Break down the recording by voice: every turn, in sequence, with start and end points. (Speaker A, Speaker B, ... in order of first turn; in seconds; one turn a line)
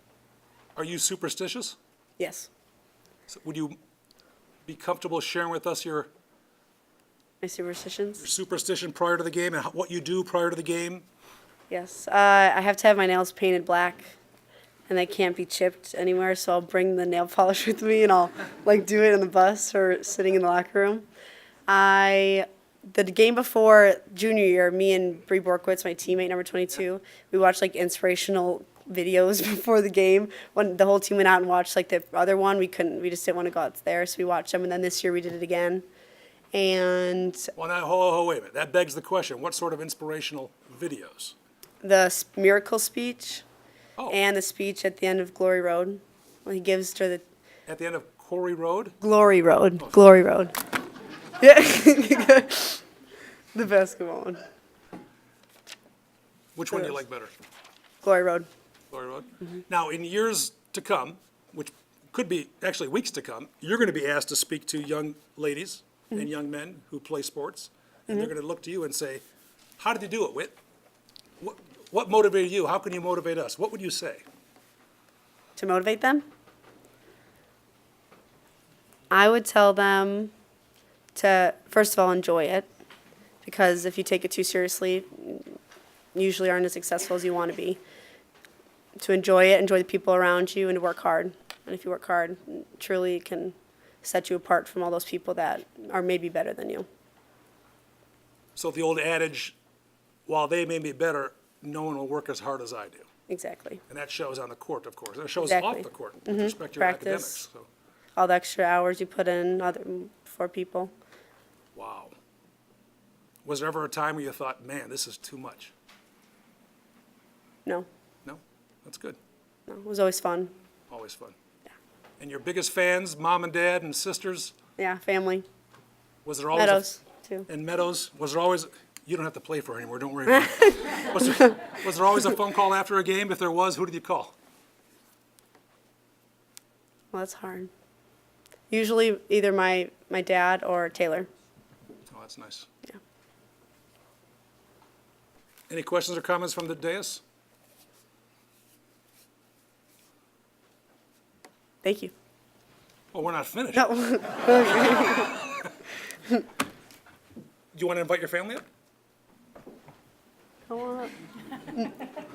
Speaker A: 0.8-1.8
Speaker B: 2.2-2.5
Speaker A: 3.3-3.8
Speaker A: 4.7-6.1
Speaker B: 7.4-8.2
Speaker A: 8.2-11.1
Speaker B: 11.7-14.2
Speaker B: 14.9-21.1
Speaker B: 21.7-35.9
Speaker B: 36.5-37.5
Speaker A: 37.6-41.4
Speaker B: 41.8-43.4
Speaker B: 44.1-47.2
Speaker A: 47.7-49.0
Speaker B: 49.0-50.6
Speaker A: 49.8-50.0
Speaker B: 51.4-52.8
Speaker B: 53.5-54.4
Speaker A: 56.5-57.3
Speaker B: 58.0-58.5
Speaker A: 58.9-69.2
Speaker A: 69.8-70.6
Speaker A: 71.4-74.2
Speaker B: 75.6-76.2
Speaker B: 79.1-80.3
Speaker B: 81.2-82.7
Speaker B: 83.4-85.6
Speaker B: 86.2-87.8
Speaker B: 89.0-96.9
Speaker A: 98.5-99.5
Speaker A: 100.3-103.1
Speaker B: 103.3-103.8
Speaker A: 103.9-107.7
Speaker B: 105.4-107.5
Speaker B: 108.2-110.9
Speaker A: 111.8-112.2
Speaker A: 113.4-115.7
Speaker A: 118.2-119.2
Speaker B: 119.7-120.5
Speaker A: 120.9-121.3
Speaker A: 122.2-124.5
Speaker B: 124.8-125.5
Speaker A: 126.2-126.9
Speaker B: 126.5-127.5
Speaker A: 127.5-134.3
Speaker B: 137.1-137.7
Speaker B: 138.7-141.3
Speaker A: 142.1-142.7
Speaker A: 145.7-147.2
Speaker B: 151.8-152.1
Speaker A: 153.1-155.5
Speaker B: 153.8-155.4
Speaker A: 157.7-158.7
Speaker B: 160.7-161.1